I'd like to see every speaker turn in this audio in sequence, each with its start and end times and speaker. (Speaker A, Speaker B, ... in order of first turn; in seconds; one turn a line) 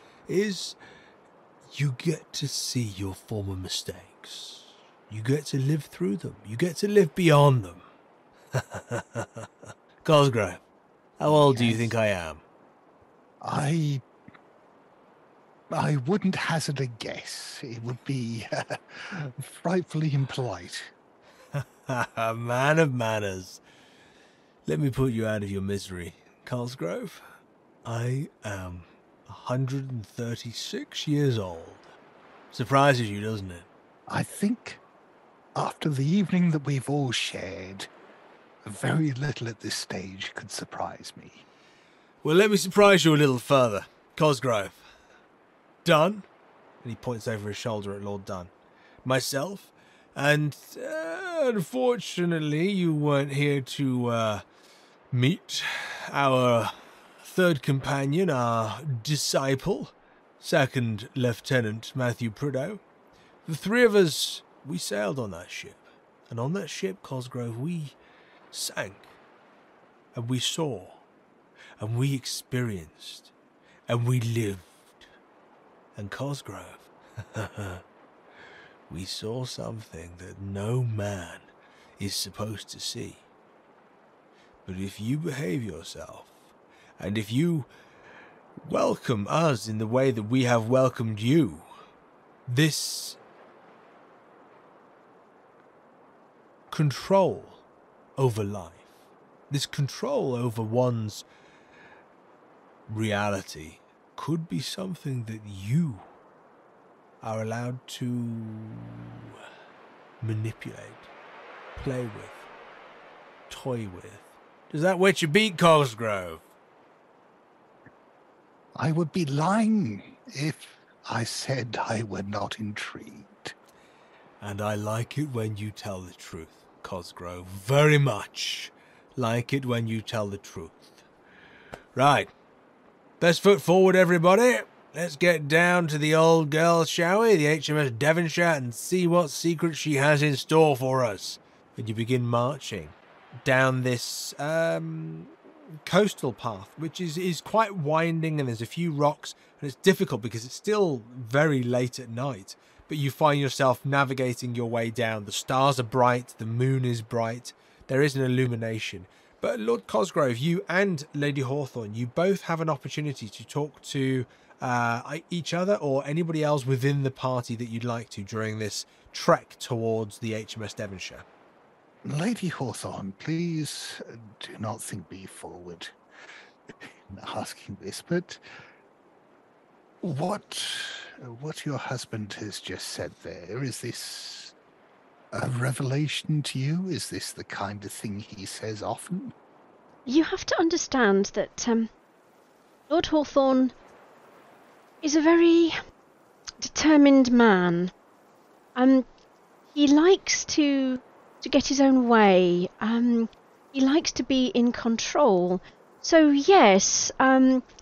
Speaker A: 0.3-0.8
Speaker A: 1.7-7.8
Speaker A: 8.5-10.6
Speaker A: 11.2-12.4
Speaker B: 11.2-11.9
Speaker B: 13.4-14.0
Speaker B: 15.7-20.9
Speaker A: 21.5-23.6
Speaker A: 24.7-27.2
Speaker A: 27.8-31.9
Speaker A: 32.5-33.7
Speaker B: 34.1-34.8
Speaker B: 35.5-37.9
Speaker B: 38.6-41.4
Speaker A: 42.2-44.9
Speaker A: 45.8-46.2
Speaker A: 46.8-48.5
Speaker A: 49.0-54.4
Speaker A: 55.1-62.8
Speaker A: 63.5-68.0
Speaker A: 68.5-69.1
Speaker A: 70.1-71.0
Speaker A: 71.8-73.3
Speaker A: 73.9-75.0
Speaker A: 76.0-77.8
Speaker A: 78.9-81.5
Speaker A: 82.0-83.2
Speaker A: 84.7-86.3
Speaker A: 87.0-87.7
Speaker A: 88.6-91.7
Speaker A: 92.5-93.2
Speaker A: 96.7-97.6
Speaker A: 98.2-98.8
Speaker A: 99.5-101.2
Speaker A: 102.9-106.1
Speaker A: 107.2-109.3
Speaker A: 110.2-111.1
Speaker A: 111.8-112.5
Speaker A: 113.5-116.4
Speaker B: 118.8-123.5
Speaker A: 124.4-131.0
Speaker A: 131.9-132.3
Speaker A: 133.2-171.2
Speaker B: 172.0-175.9
Speaker B: 177.1-178.4
Speaker B: 180.0-184.5
Speaker B: 185.3-189.3
Speaker C: 190.1-191.9
Speaker C: 192.9-193.7
Speaker C: 195.0-195.8
Speaker C: 196.6-197.9
Speaker C: 198.7-199.1
Speaker C: 199.7-207.6